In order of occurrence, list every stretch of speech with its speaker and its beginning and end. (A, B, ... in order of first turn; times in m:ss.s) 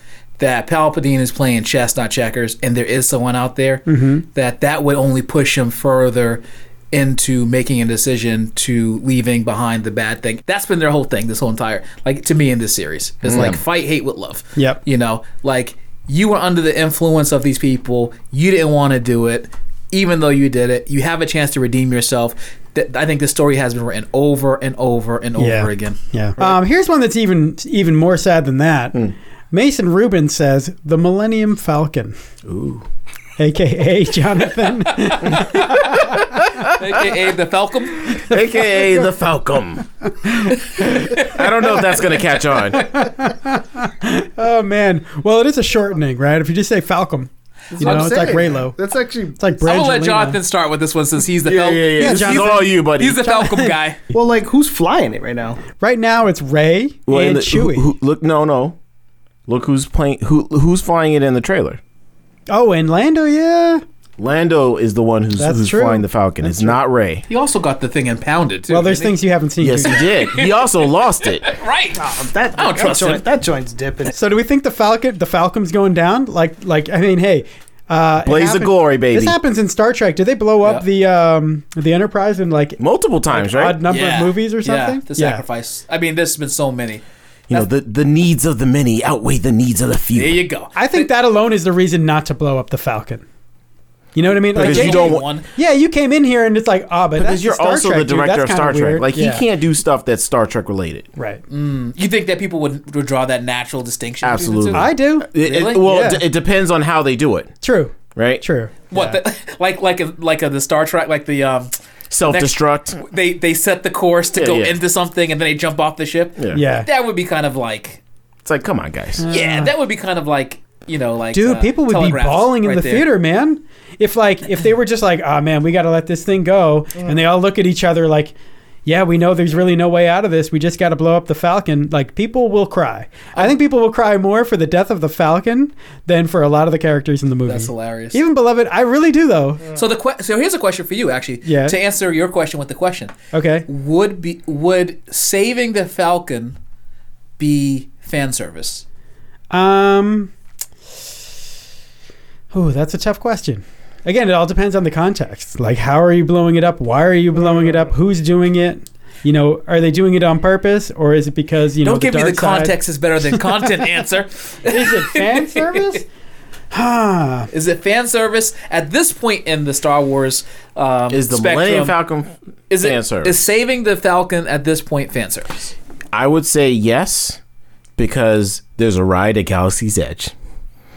0:00.4-0:26.6 A
0:03.9-0:04.2 B
0:13.2-0:13.6 C
0:25.4-0:32.2 B
0:32.4-0:32.9 C
0:33.4-0:36.2 B
0:35.0-0:35.9 A
0:36.0-0:37.0 C
0:36.6-0:38.2 A
0:38.1-0:39.9 C
0:40.2-0:40.6 B
0:40.8-0:42.9 C
0:41.1-0:41.4 A
0:42.8-0:48.8 B
0:47.7-0:49.4 D
0:47.8-0:48.3 A
0:49.4-0:50.4 B
0:49.6-0:54.0 A
0:51.4-0:53.2 C
0:52.0-0:53.8 B
0:54.1-0:55.6 D
0:55.8-0:57.9 B
0:57.1-0:58.8 C
0:59.5-1:01.8 C
1:02.5-1:03.8 B
1:04.2-1:07.2 C
1:05.4-1:06.8 B
1:07.3-1:09.2 A
1:08.7-1:10.1 B
1:09.6-1:11.5 C
1:09.8-1:13.2 A
1:12.0-1:14.2 D
1:14.1-1:25.4 B
1:18.2-1:19.4 C
1:22.8-1:23.8 C
1:23.9-1:27.6 A
1:27.5-1:30.4 C
1:30.1-1:31.1 A
1:30.8-1:33.2 B
1:34.2-1:39.4 B
1:34.5-1:35.5 A
1:34.6-1:35.3 C
1:37.2-1:41.1 C
1:41.2-1:41.4 B
1:41.5-1:44.9 A
1:44.2-1:47.5 C
1:44.7-1:46.2 B
1:45.4-1:45.9 A
1:47.6-1:49.2 B
1:48.2-1:48.4 C
1:48.9-1:51.7 A
1:52.1-1:53.0 C
1:52.3-1:58.0 A
1:54.4-1:54.8 C
1:56.5-1:56.9 B
1:58.4-1:59.2 C
1:59.2-1:59.7 B
1:59.3-2:03.1 A
2:01.3-2:08.4 B
2:08.9-2:19.6 B
2:17.5-2:18.2 A
2:19.7-2:23.1 A
2:21.4-2:21.8 B
2:23.3-2:23.7 B
2:23.7-2:26.6 A
2:27.4-2:28.8 A
2:29.5-2:30.3 B
2:32.5-2:42.8 B
2:41.8-2:46.0 A
2:44.7-2:46.1 B
2:46.7-2:47.5 B
2:47.5-2:52.0 A
2:51.1-2:53.4 C
2:52.7-2:55.7 A
2:56.1-2:57.4 C
2:58.0-3:00.3 C